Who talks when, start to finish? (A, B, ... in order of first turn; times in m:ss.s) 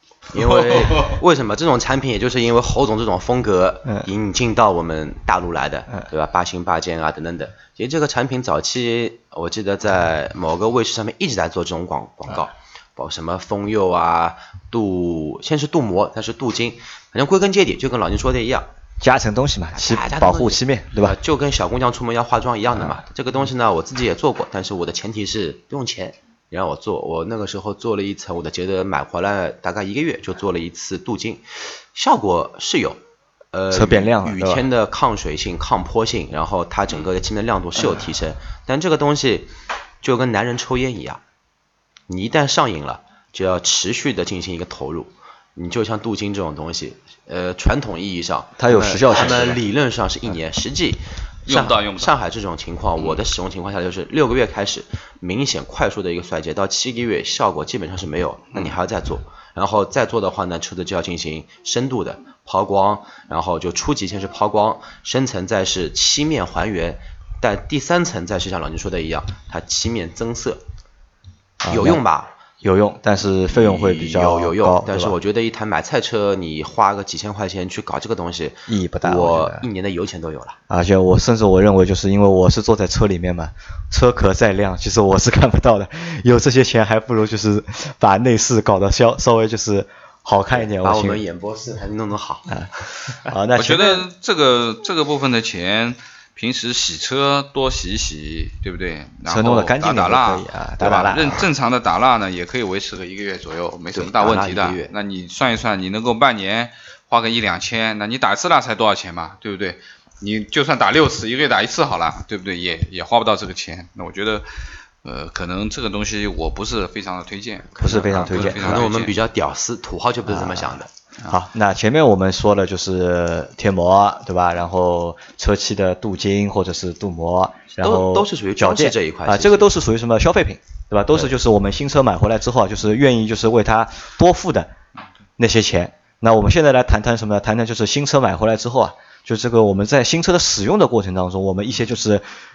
0:00.3-0:18.7 A
0:00.6-0:01.1 B
0:19.0-0:21.1 C
0:19.7-0:33.0 A
0:33.5-0:41.2 A
0:33.7-0:34.6 C
0:42.1-1:10.6 A
0:48.6-0:49.6 C
0:51.5-0:52.1 B
1:11.6-1:12.0 C
1:11.7-1:12.3 A
1:12.6-1:15.1 C
1:13.5-1:20.6 A
1:18.7-1:19.7 C
1:20.7-1:31.2 C
1:30.5-1:32.6 A
1:33.2-1:34.0 C
1:33.5-1:59.2 B
1:39.2-1:41.4 C
1:43.9-1:44.9 A
1:57.8-1:58.8 C
1:57.8-2:00.9 A
2:00.3-2:14.7 C
2:07.7-2:09.7 A
2:15.4-2:22.2 C